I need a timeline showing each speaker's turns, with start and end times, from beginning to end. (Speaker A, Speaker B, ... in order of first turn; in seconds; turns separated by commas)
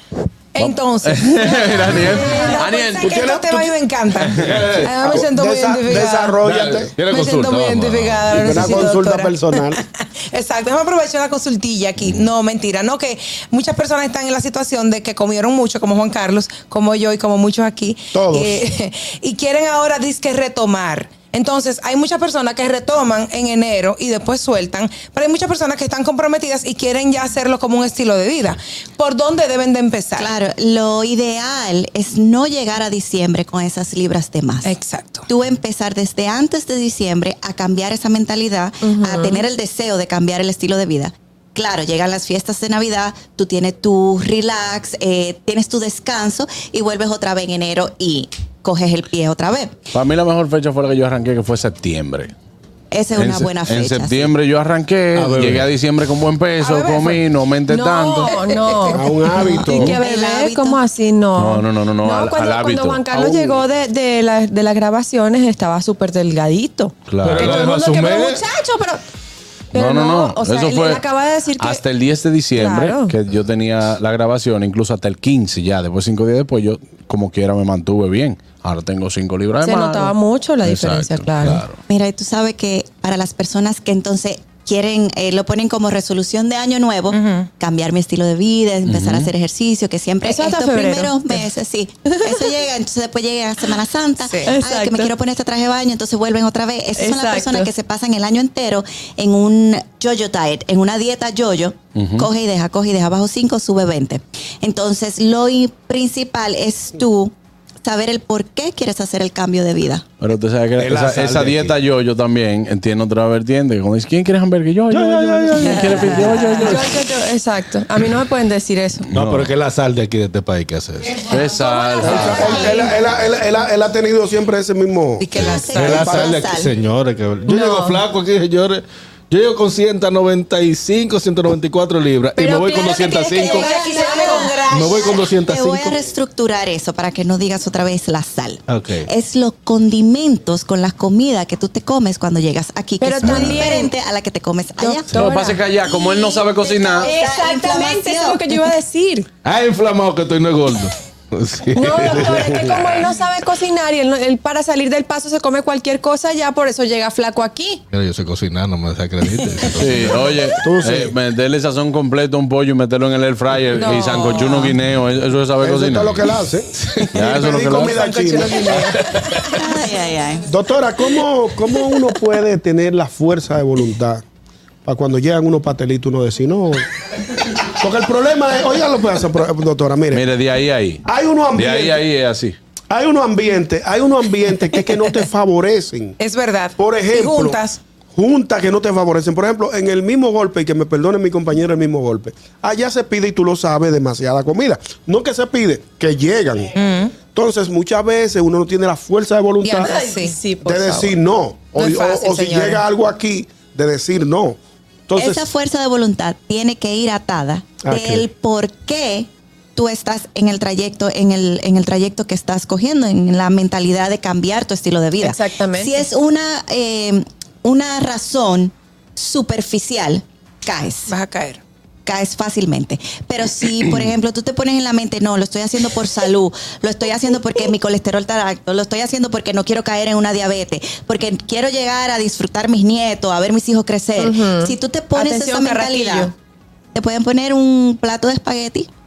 Speaker A: 0.6-6.4, Speaker B: 0.6-3.1, Speaker C: 2.2-2.5, Speaker D: 3.0-3.7, Speaker E: 4.4-5.2, Speaker D: 5.0-7.0, Speaker E: 5.9-8.4, Speaker A: 7.1-30.3, Speaker B: 7.1-8.7, Speaker D: 8.3-9.8, Speaker D: 18.1-18.6, Speaker F: 30.2-34.7, Speaker A: 34.6-35.3, Speaker F: 35.3-49.8, Speaker C: 38.8-39.5, Speaker B: 49.9-52.3, Speaker F: 52.9-54.3, Speaker B: 53.2-58.4, Speaker E: 55.1-55.7, Speaker A: 56.6-57.2, Speaker C: 57.7-69.0, Speaker A: 58.3-58.9, Speaker D: 58.9-60.0, Speaker F: 59.4-60.8, Speaker B: 59.7-60.0, Speaker B: 61.4-63.0, Speaker D: 63.1-63.5, Speaker B: 67.1-67.7, Speaker E: 67.2-68.4, Speaker C: 69.7-71.8, Speaker B: 69.7-71.0, Speaker B: 71.6-81.8, Speaker C: 72.5-73.2, Speaker C: 79.6-81.7, Speaker F: 81.9-110.0, Speaker A: 87.1-87.5, Speaker B: 88.9-89.3, Speaker C: 90.2-91.5, Speaker A: 94.3-94.5, Speaker C: 94.5-95.1, Speaker C: 97.0-97.7, Speaker B: 102.0-102.3, Speaker B: 110.2-117.0, Speaker D: 110.8-111.7, Speaker E: 114.9-116.9, Speaker C: 115.7-119.1, Speaker B: 119.1-119.5, Speaker E: 119.1-121.3, Speaker B: 121.3-122.8, Speaker C: 121.6-122.9, Speaker D: 122.0-126.4, Speaker F: 125.2-126.7, Speaker E: 125.4-133.8, Speaker C: 127.5-128.0, Speaker A: 132.4-135.0, Speaker C: 132.5-134.6, Speaker F: 133.4-145.1, Speaker E: 134.7-136.0, Speaker E: 138.7-139.1, Speaker C: 143.0-143.9, Speaker C: 144.8-145.6, Speaker B: 145.1-147.1, Speaker F: 146.0-148.5, Speaker C: 147.0-149.3, Speaker E: 149.4-153.0, Speaker C: 151.8-157.8, Speaker E: 157.9-160.4, Speaker B: 159.8-166.3, Speaker D: 160.6-161.1, Speaker A: 163.8-164.7, Speaker D: 165.6-169.0, Speaker B: 167.1-168.1, Speaker A: 167.4-169.4, Speaker F: 169.5-170.5, Speaker D: 170.5-174.2, Speaker D: 174.8-176.9, Speaker D: 177.4-180.2, Speaker B: 180.1-181.0, Speaker D: 181.1-182.0, Speaker B: 181.5-182.6, Speaker D: 182.9-186.2, Speaker A: 186.2-187.8, Speaker D: 186.8-187.6, Speaker D: 188.1-196.7, Speaker A: 196.8-197.2, Speaker D: 197.2-199.9, Speaker A: 199.6-200.4, Speaker C: 199.8-201.2, Speaker D: 200.6-204.6, Speaker A: 201.8-202.8, Speaker D: 205.1-205.5, Speaker F: 205.2-221.1, Speaker D: 207.8-208.3, Speaker C: 215.2-216.0, Speaker A: 221.1-221.6, Speaker F: 222.1-236.3, Speaker C: 234.2-236.3, Speaker F: 236.9-238.9